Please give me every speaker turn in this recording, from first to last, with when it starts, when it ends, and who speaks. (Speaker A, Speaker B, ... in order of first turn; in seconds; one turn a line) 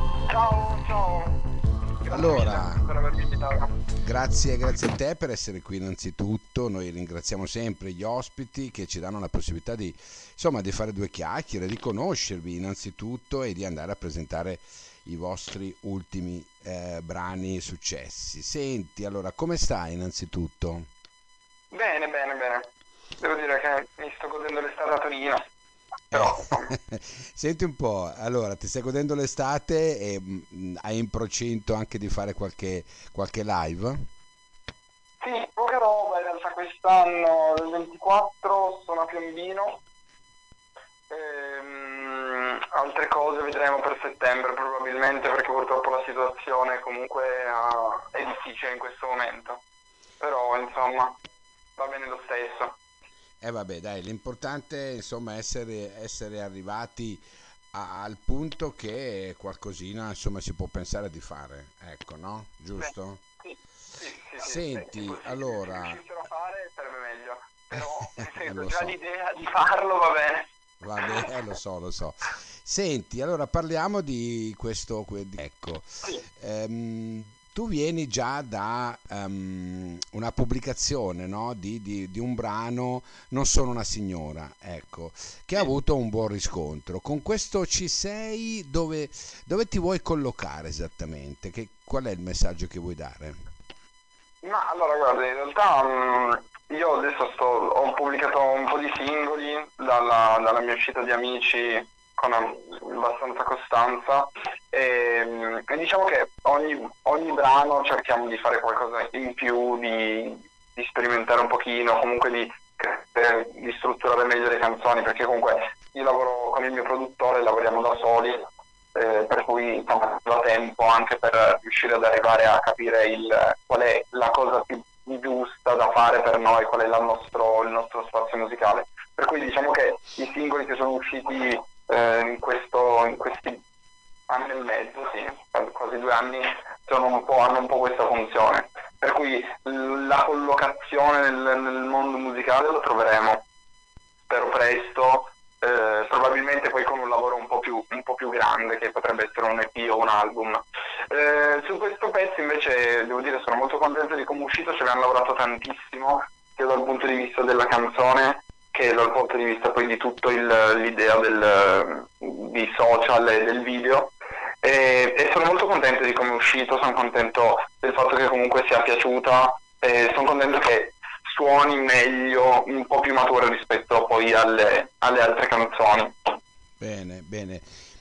Speaker A: 0.3-1.4
Speaker A: 2.0-3.7
Speaker B: 2.1-2.9
Speaker B: 4.0-20.9
Speaker A: 21.7-25.4
Speaker A: 26.1-26.7
Speaker B: 26.1-34.1
Speaker A: 35.2-39.8
Speaker A: 41.1-49.6
Speaker A: 50.2-51.2
Speaker A: 51.8-52.8
Speaker B: 53.4-63.2
Speaker A: 62.8-70.5
Speaker B: 64.4-66.0
Speaker B: 67.7-68.9
Speaker B: 70.8-93.4
Speaker A: 94.4-133.6
Speaker A: 134.3-143.4
Speaker A: 144.3-176.3
Speaker B: 176.8-177.6